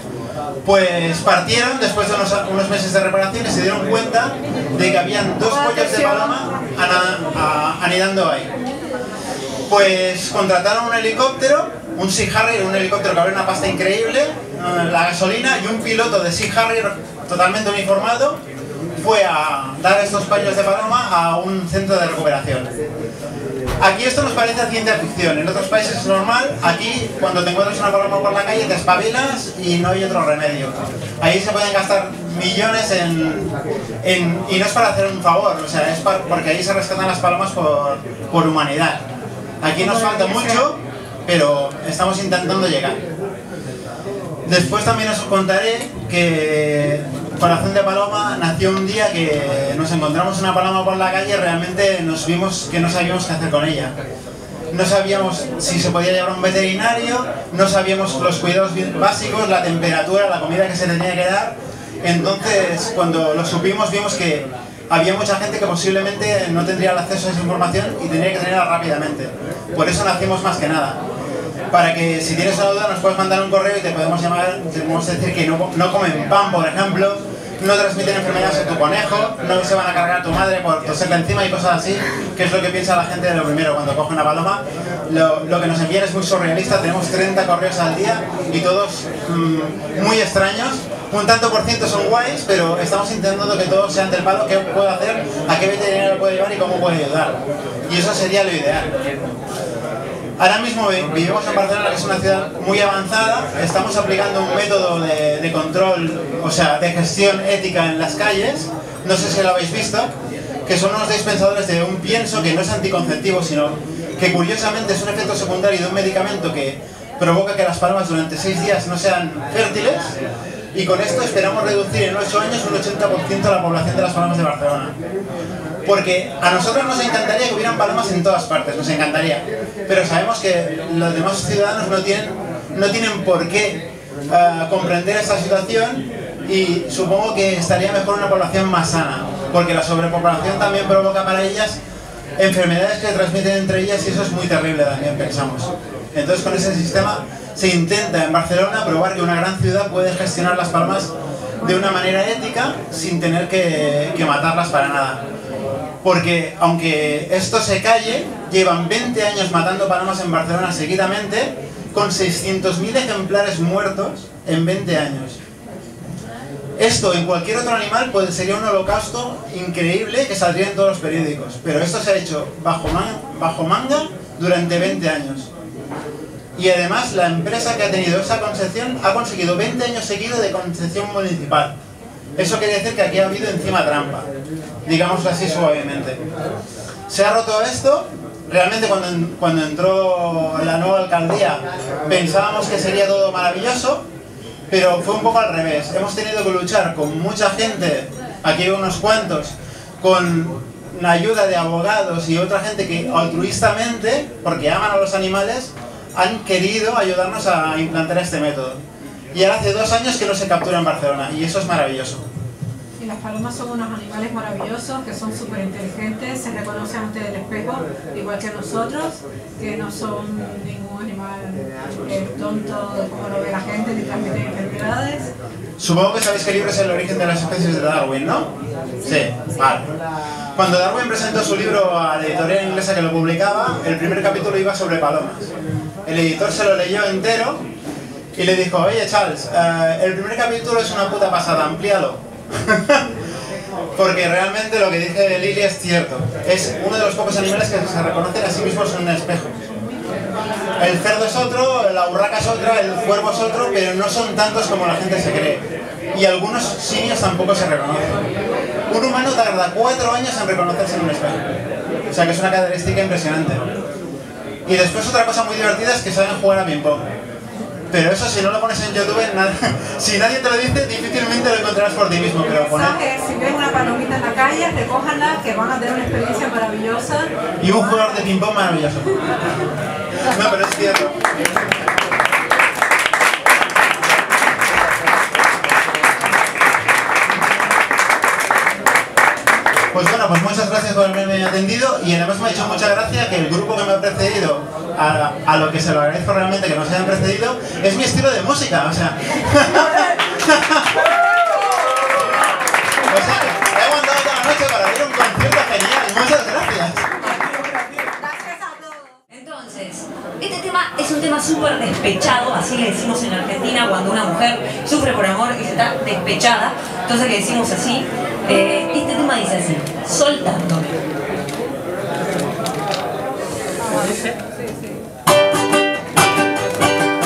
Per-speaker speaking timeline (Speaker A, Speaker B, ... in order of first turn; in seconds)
Speaker A: 0.6-8.5, 9.7-18.4, 19.0-22.7, 23.8-33.5, 34.0-39.1, 39.6-43.0, 44.5-53.9, 54.7-71.0, 71.7-98.9, 100.4-110.1, 110.7-120.2, 120.7-125.0, 125.8-141.8, 142.4-155.2, 156.0-165.4, 166.8-175.5, 176.6-181.7, 182.4-184.3, 184.9-186.2, 187.1-194.0, 194.7-208.8, 209.3-212.2, 225.8-228.5, 229.1-229.9, 230.6-235.5, 236.1-237.6, 238.3-243.1, 244.0-249.6, 250.8-258.2, 258.9-261.4, 262.1-263.7, 264.7-267.1, 267.9-273.0, 277.6-279.1, 280.3-281.1, 289.9-300.9, 303.1-307.1
Speaker B: 5.5-6.6, 39.8-40.7, 151.7-151.9, 213.0-225.3, 272.5-277.3, 323.9-324.5
Speaker C: 309.3-320.9